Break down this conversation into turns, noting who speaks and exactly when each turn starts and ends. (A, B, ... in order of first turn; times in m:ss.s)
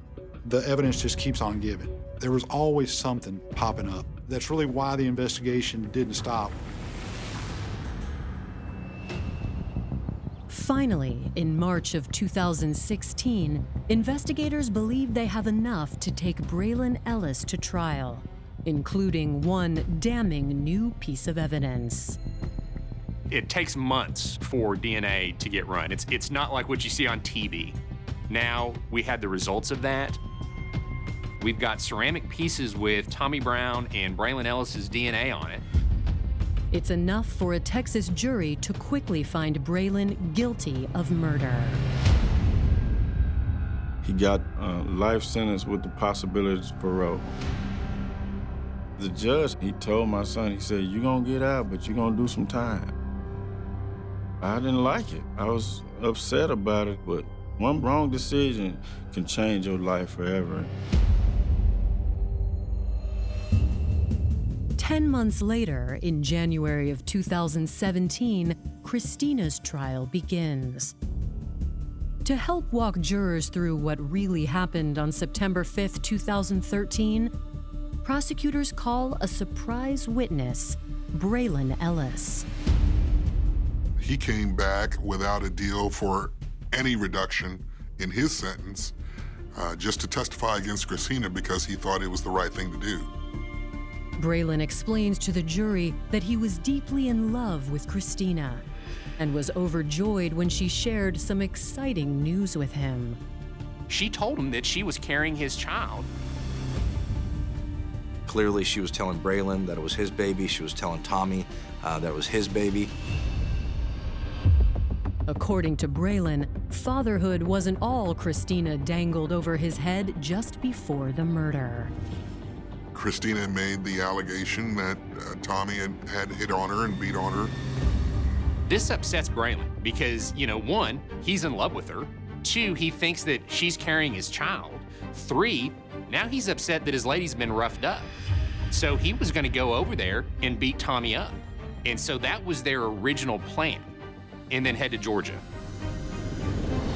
0:00.4-0:06.6 A
0:10.5-0:22.2 B
0:23.3-0:27.8 C
0:28.3-0:30.2 C
0:31.4-0:35.6 C
0:36.7-0:41.8 B
0:44.0-0:47.3 D
0:49.0-0:52.9 D
0:54.4-1:00.7 D
1:04.8-1:10.9 B
1:12.2-1:17.3 B
1:18.0-1:22.4 B
1:24.0-1:28.9 E
1:29.5-1:33.1 E
1:34.2-1:38.6 B
1:39.2-1:43.2 B
1:43.9-1:46.1 C
1:48.2-1:52.9 F
1:55.3-2:01.9 B
2:02.9-2:07.5 E
2:08.6-2:18.1 C
2:18.7-2:23.9 C
2:24.5-2:25.4 C